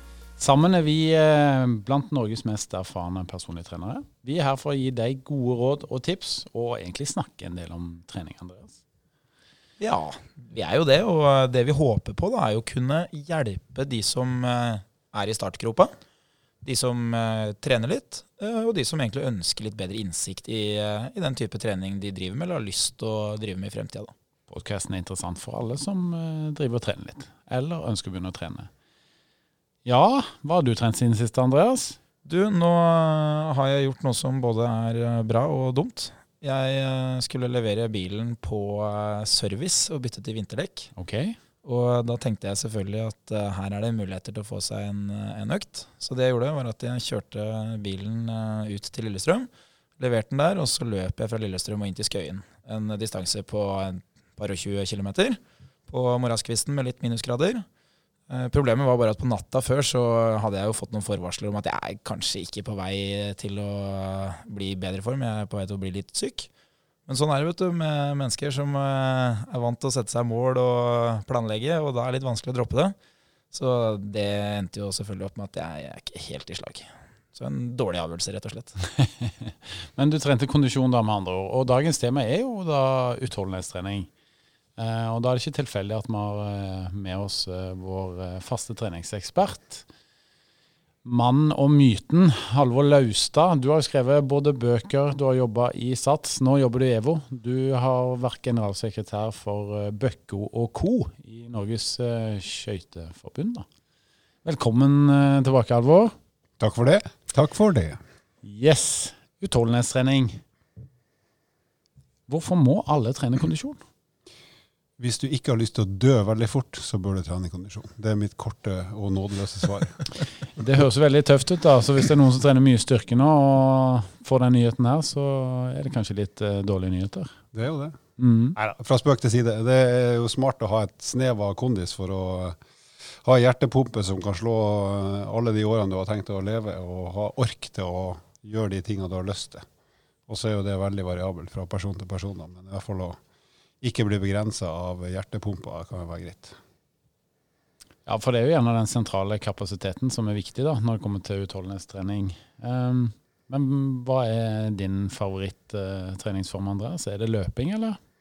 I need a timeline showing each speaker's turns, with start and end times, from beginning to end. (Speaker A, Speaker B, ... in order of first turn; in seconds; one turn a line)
Speaker A: 0.4-8.8
Speaker B: 9.8-15.9
Speaker B: 16.6-24.1
Speaker A: 24.5-28.7
Speaker A: 29.8-32.0
Speaker B: 32.2-40.9
Speaker A: 41.0-41.3
Speaker B: 41.6-57.6
Speaker B: 58.3-66.5
Speaker B: 67.1-72.9
Speaker B: 73.5-78.8
Speaker A: 78.9-84.1
Speaker A: 84.8-89.8
Speaker A: 91.0-103.6
Speaker A: 104.4-106.1
Speaker C: 106.6-108.0
Speaker A: 108.4-110.4
Speaker A: 112.3-113.8
Speaker C: 115.0-120.1
Speaker A: 120.6-127.3
Speaker C: 127.5-128.0
Speaker A: 128.2-128.6
Speaker C: 128.6-132.6
Speaker C: 133.2-139.6
Speaker C: 140.3-143.2
Speaker C: 143.8-146.6
Speaker A: 148.1-158.0